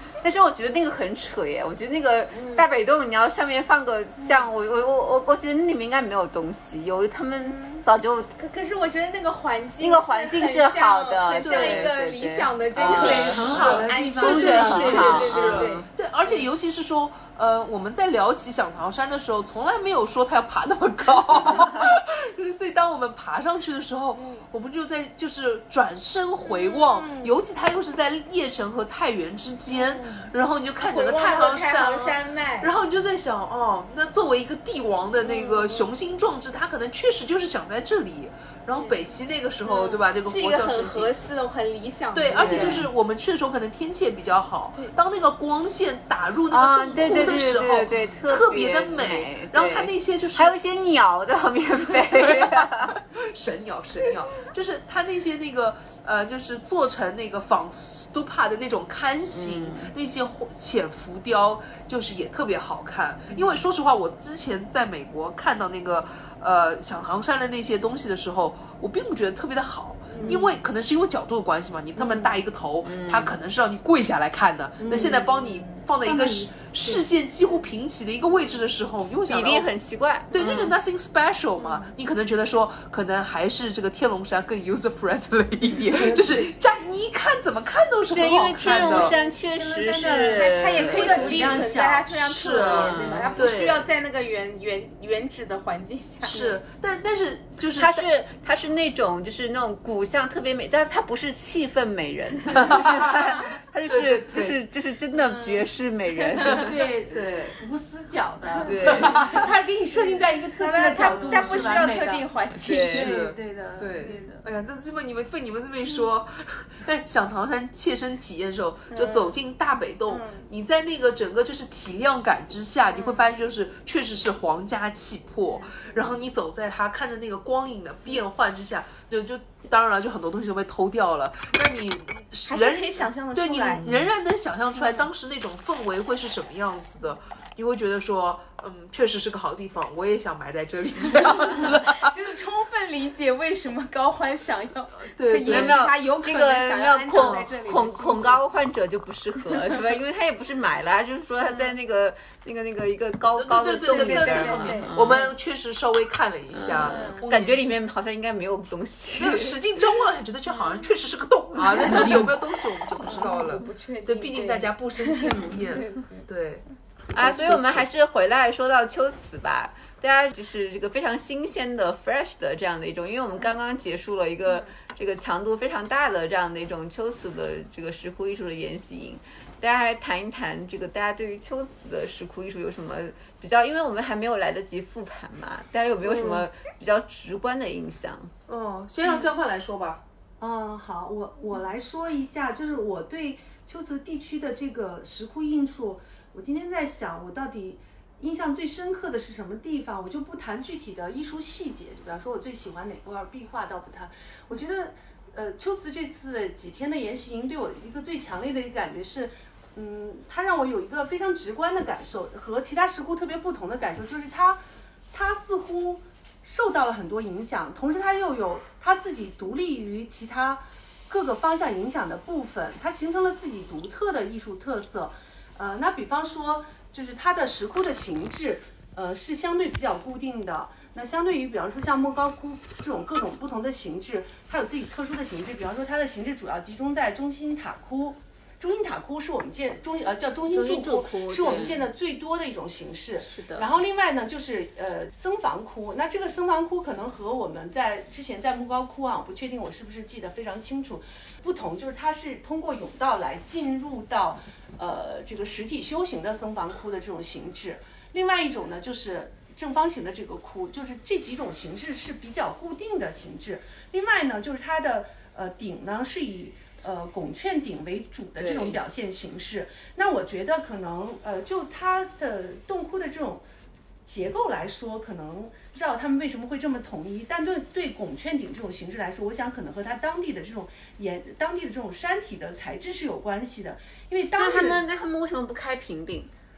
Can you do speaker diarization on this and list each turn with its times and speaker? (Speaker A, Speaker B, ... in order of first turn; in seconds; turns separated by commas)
Speaker A: 0.2-8.3, Speaker B: 2.3-2.7, Speaker B: 4.2-4.5, Speaker B: 7.4-7.8, Speaker B: 8.4-16.5, Speaker A: 9.8-15.9, Speaker C: 11.4-11.9, Speaker C: 12.8-41.1, Speaker D: 12.8-15.4, Speaker B: 24.1-24.4, Speaker B: 26.4-27.3, Speaker B: 29.7-30.3, Speaker B: 30.8-32.7, Speaker B: 35.2-35.9, Speaker B: 38.8-42.9, Speaker C: 42.1-50.6, Speaker A: 42.4-42.9, Speaker A: 46.5-53.0, Speaker C: 52.3-79.7, Speaker A: 59.3-59.9, Speaker D: 70.1-70.5, Speaker D: 72.0-72.3, Speaker A: 72.8-73.3, Speaker D: 74.8-77.0, Speaker A: 79.3-80.8, Speaker C: 80.3-89.1, Speaker B: 81.6-81.9, Speaker A: 88.1-91.6, Speaker D: 88.6-93.3, Speaker B: 90.1-96.6, Speaker C: 92.2-93.9, Speaker A: 92.8-93.4, Speaker C: 96.2-98.1, Speaker A: 97.8-106.7, Speaker C: 102.5-104.6, Speaker B: 105.1-106.7, Speaker D: 106.5-112.3, Speaker C: 107.1-107.6, Speaker B: 108.6-109.3, Speaker A: 108.6-109.4, Speaker C: 109.1-109.4, Speaker B: 110.0-113.3, Speaker A: 112.6-113.1, Speaker D: 112.9-114.4, Speaker C: 112.9-142.1, Speaker B: 114.0-114.4, Speaker B: 118.9-119.4, Speaker B: 120.1-120.5, Speaker B: 122.9-123.3, Speaker B: 125.6-125.9, Speaker B: 132.5-134.0, Speaker B: 134.8-135.1, Speaker B: 141.1-147.5, Speaker C: 145.1-145.8, Speaker A: 145.5-155.3, Speaker D: 145.9-148.4, Speaker C: 153.4-157.7, Speaker B: 153.9-155.2, Speaker A: 156.5-159.6, Speaker B: 156.7-157.2, Speaker C: 159.1-167.9, Speaker B: 160.5-160.9, Speaker B: 161.7-162.2, Speaker B: 163.0-166.2, Speaker A: 167.1-188.3, Speaker C: 186.1-186.4, Speaker C: 188.5-190.0, Speaker D: 190.4-214.6, Speaker D: 215.1-273.4, Speaker A: 240.5-241.9, Speaker A: 243.2-243.7, Speaker A: 268.4-268.8, Speaker D: 274.1-284.8, Speaker A: 284.4-286.3